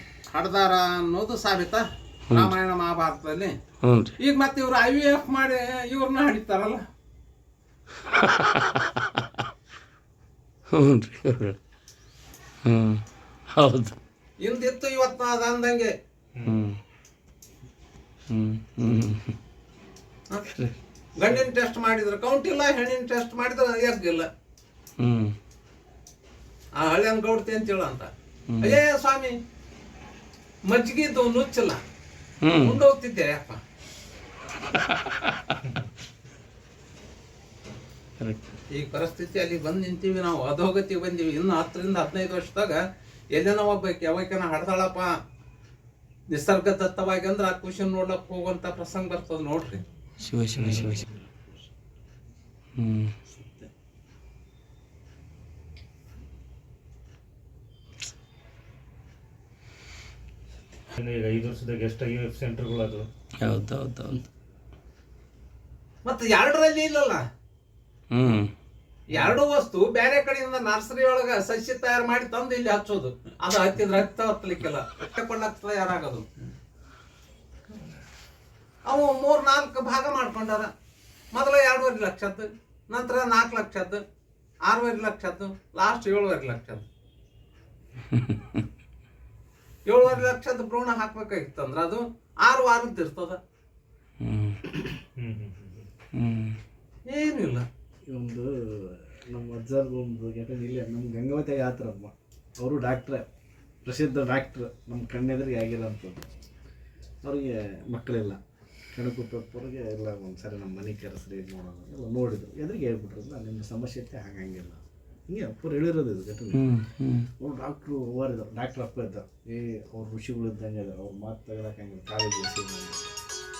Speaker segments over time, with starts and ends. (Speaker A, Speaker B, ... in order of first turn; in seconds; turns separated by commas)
Speaker A: 0.3-3.5, Speaker B: 3.8-4.2, Speaker A: 4.2-6.8, Speaker B: 8.1-9.2, Speaker B: 10.7-11.6, Speaker B: 12.6-13.0, Speaker B: 13.5-13.9, Speaker A: 14.4-15.9, Speaker B: 16.4-16.8, Speaker B: 18.3-19.3, Speaker B: 20.5-20.8, Speaker A: 21.2-24.3, Speaker B: 25.0-25.3, Speaker A: 26.8-28.1, Speaker B: 28.5-28.8, Speaker A: 28.6-29.3, Speaker A: 30.7-31.8, Speaker B: 32.4-32.8, Speaker A: 32.6-33.6, Speaker B: 35.1-35.6, Speaker B: 38.2-38.5, Speaker A: 38.7-42.8, Speaker A: 43.3-45.1, Speaker A: 46.3-49.8, Speaker B: 50.2-51.0, Speaker C: 50.6-51.0, Speaker D: 50.8-51.5, Speaker B: 52.8-53.1, Speaker D: 53.3-53.7, Speaker C: 60.9-63.1, Speaker B: 63.4-64.2, Speaker A: 66.0-67.2, Speaker B: 68.1-68.5, Speaker A: 69.1-76.3, Speaker A: 78.8-80.7, Speaker A: 81.3-84.0, Speaker A: 84.7-86.8, Speaker B: 88.1-88.6, Speaker A: 89.8-93.4, Speaker B: 94.2-94.6, Speaker C: 95.2-95.9, Speaker B: 96.1-96.5, Speaker A: 97.1-97.7, Speaker D: 98.1-103.2, Speaker D: 103.8-106.3, Speaker D: 107.2-108.4, Speaker D: 108.9-116.7, Speaker B: 116.5-117.3, Speaker D: 117.4-123.1